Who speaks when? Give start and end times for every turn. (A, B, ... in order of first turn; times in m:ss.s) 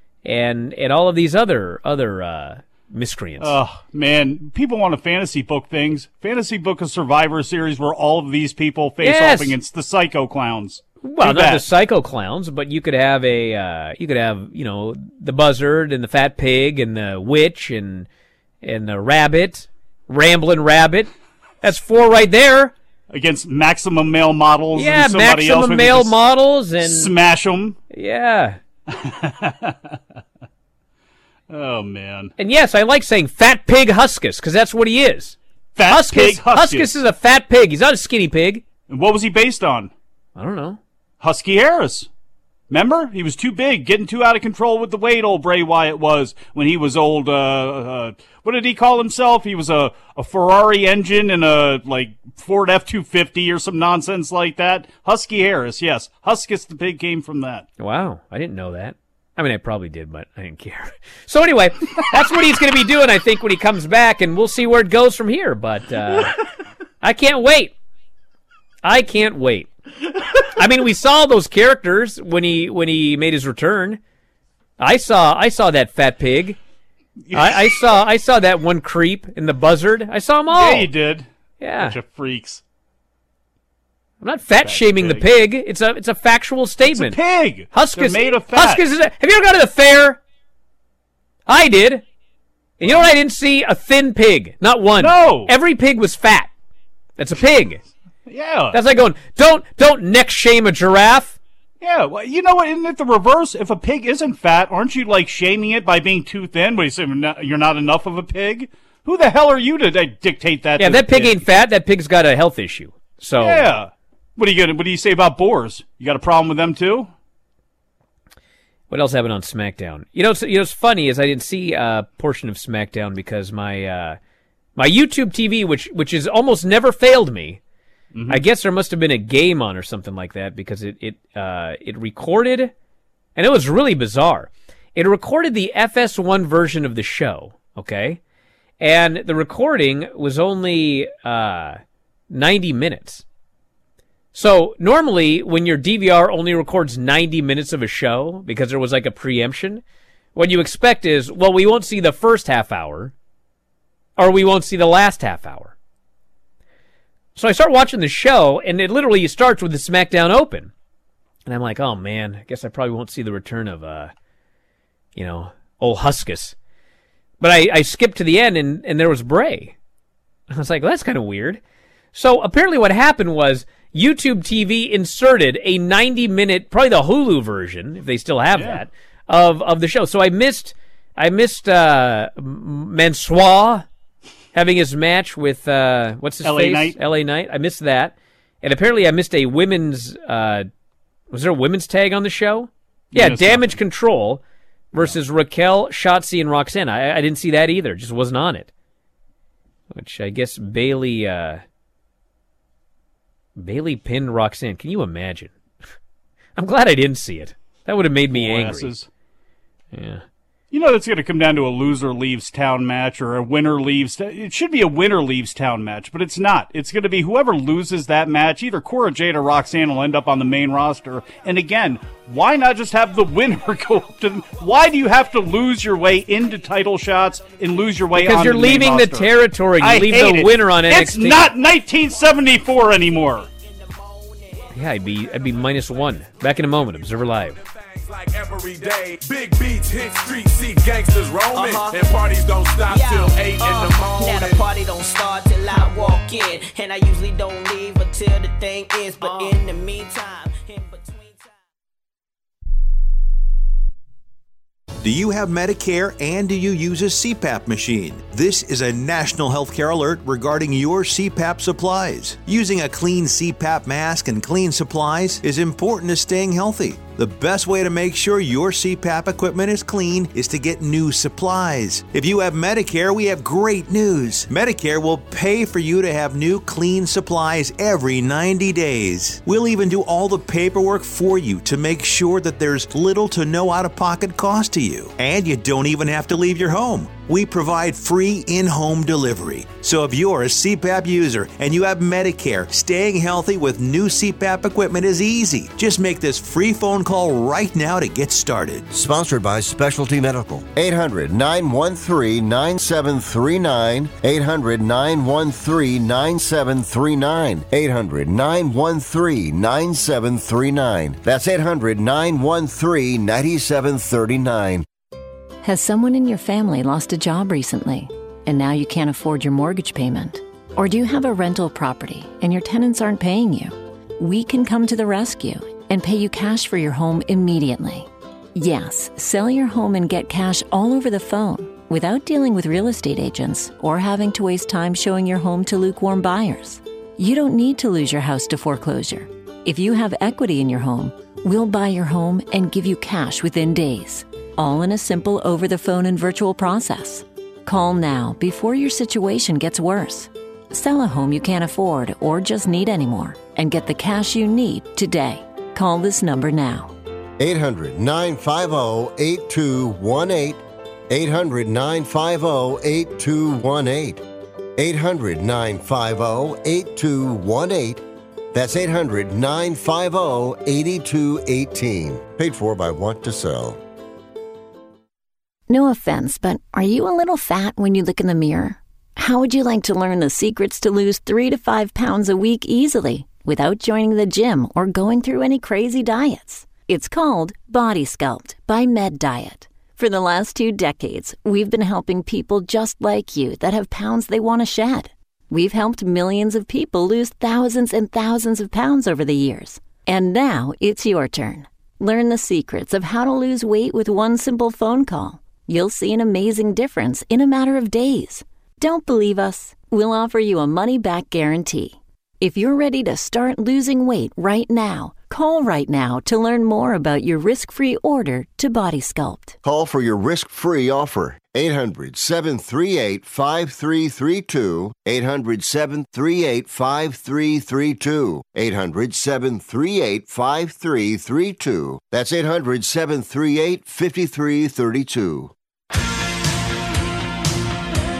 0:00.2-0:03.6 A
0:03.4-0:11.6 B
0:09.0-0:09.6 A
0:11.0-0:18.1 A
0:18.6-0:21.1 A
0:21.6-0:22.7 A
0:23.1-0:26.2 B
0:24.8-0:27.1 A
0:26.8-0:27.8 B
0:27.9-0:28.6 A
0:28.9-0:30.0 B
0:31.5-0:32.3 B
0:32.4-0:38.6 A
0:35.8-0:36.9 B
0:38.9-0:39.9 B
0:40.4-0:40.8 A
0:41.2-0:42.1 B
0:42.7-0:57.7 B
0:57.8-1:06.4 A
1:07.0-1:07.7 A
1:08.8-1:09.7 A
1:10.5-1:14.0 A
1:14.8-1:16.6 A
1:17.3-1:17.8 B
1:17.3-1:20.9 A
1:20.5-1:21.3 B
1:21.6-1:22.0 A
1:21.8-1:22.6 B
1:24.2-1:30.2 A
1:24.6-1:25.2 B
1:26.8-1:28.8 B
1:31.5-1:32.0 A
1:32.8-1:36.5 A
1:35.0-1:35.5 B
1:37.2-1:37.8 A
1:38.3-1:38.8 B
1:38.7-1:41.4 A
1:41.8-1:51.5 B
1:50.8-1:53.7 A
1:53.4-1:57.1 B
1:58.9-2:04.2 A
2:04.8-2:07.6 A
2:08.1-2:08.4 B
2:08.3-2:12.7 A
2:13.4-2:18.2 A
2:18.8-2:23.2 A
2:24.3-2:29.8 A
2:30.3-2:33.1 A
2:34.2-2:35.7 A
2:37.3-2:40.7 A
2:41.4-2:44.1 A
2:45.2-2:46.6 A
2:47.4-2:49.8 A
2:50.5-2:51.6 A
2:52.1-3:03.8 A
2:58.5-2:58.8 B
3:04.5-3:10.7 A
3:06.4-3:07.0 B
3:11.3-3:14.4 A
3:13.1-3:13.8 B
3:14.9-3:18.7 A
3:19.9-3:21.6 A
3:23.6-3:25.5 A
3:26.6-3:28.9 A
3:28.3-3:29.1 B
3:29.9-3:30.2 A
3:30.7-3:53.5 B
3:48.1-3:51.5 A
3:53.6-3:54.7 C
3:54.7-3:57.6 A
3:57.6-4:04.6 D
4:01.5-4:02.1 C
4:02.9-4:11.5 C
4:09.2-4:09.5 D
4:15.0-4:58.9 E
4:58.9-5:14.8 F
5:15.6-5:56.9 G
5:57.4-6:04.2 F
6:04.8-6:13.8 F
6:15.7-6:59.6 G
6:59.6-7:15.5 F